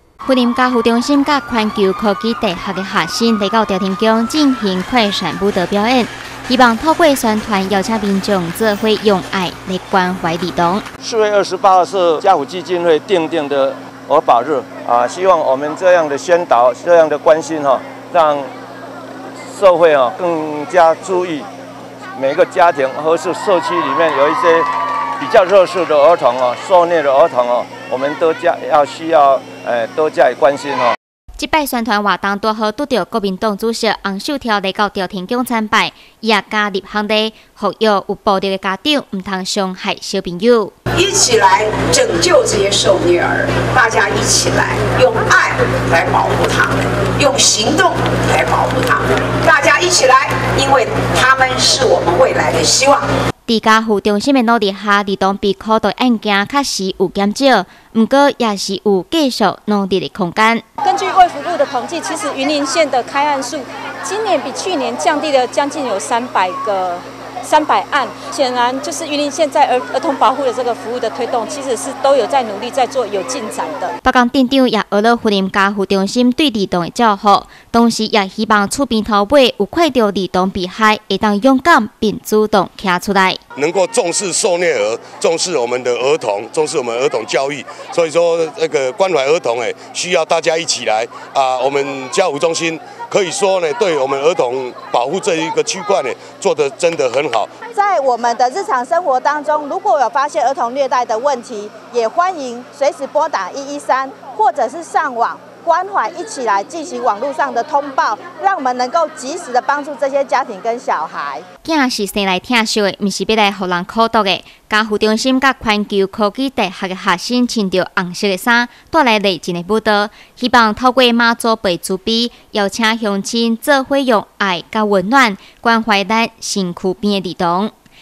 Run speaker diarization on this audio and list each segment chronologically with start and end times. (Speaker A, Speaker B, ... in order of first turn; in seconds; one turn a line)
Speaker A: 0.2-10.8
Speaker B: 11.0-18.5
Speaker B: 19.5-21.5
Speaker B: 22.1-24.7
Speaker B: 25.2-31.0
Speaker A: 31.4-40.7
Speaker C: 40.9-53.1
Speaker A: 53.5-60.6
Speaker D: 60.8-73.9
Speaker A: 74.0-83.4
Speaker E: 83.6-97.5
Speaker F: 97.7-111.5
Speaker A: 111.6-127.7